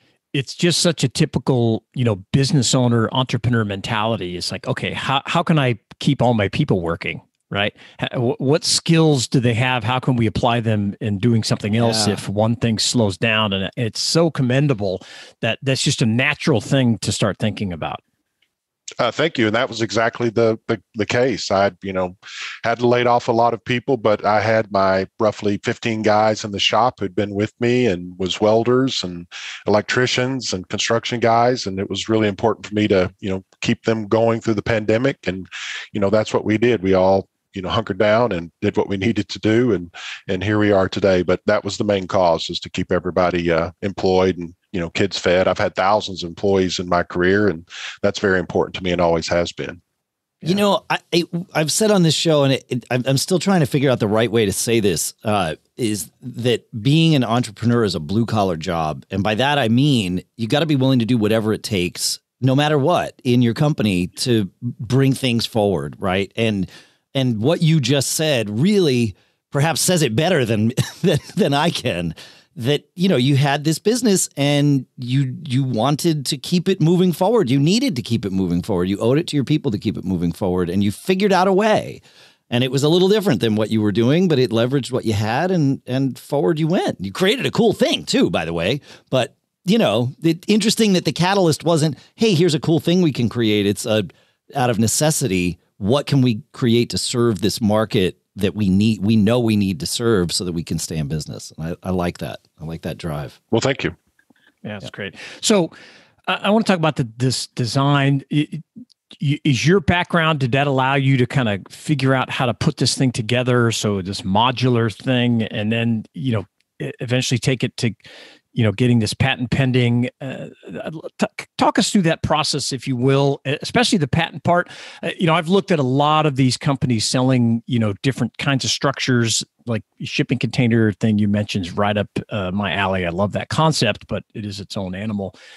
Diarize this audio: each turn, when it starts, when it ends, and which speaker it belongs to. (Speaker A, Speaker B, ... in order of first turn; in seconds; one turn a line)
Speaker A: 0.3-18.0
Speaker B: 11.8-12.2
Speaker C: 19.0-49.8
Speaker B: 50.4-103.4
Speaker C: 103.5-103.9
Speaker A: 104.6-105.7
Speaker A: 106.3-108.6
Speaker A: 109.2-118.0
Speaker A: 118.5-135.3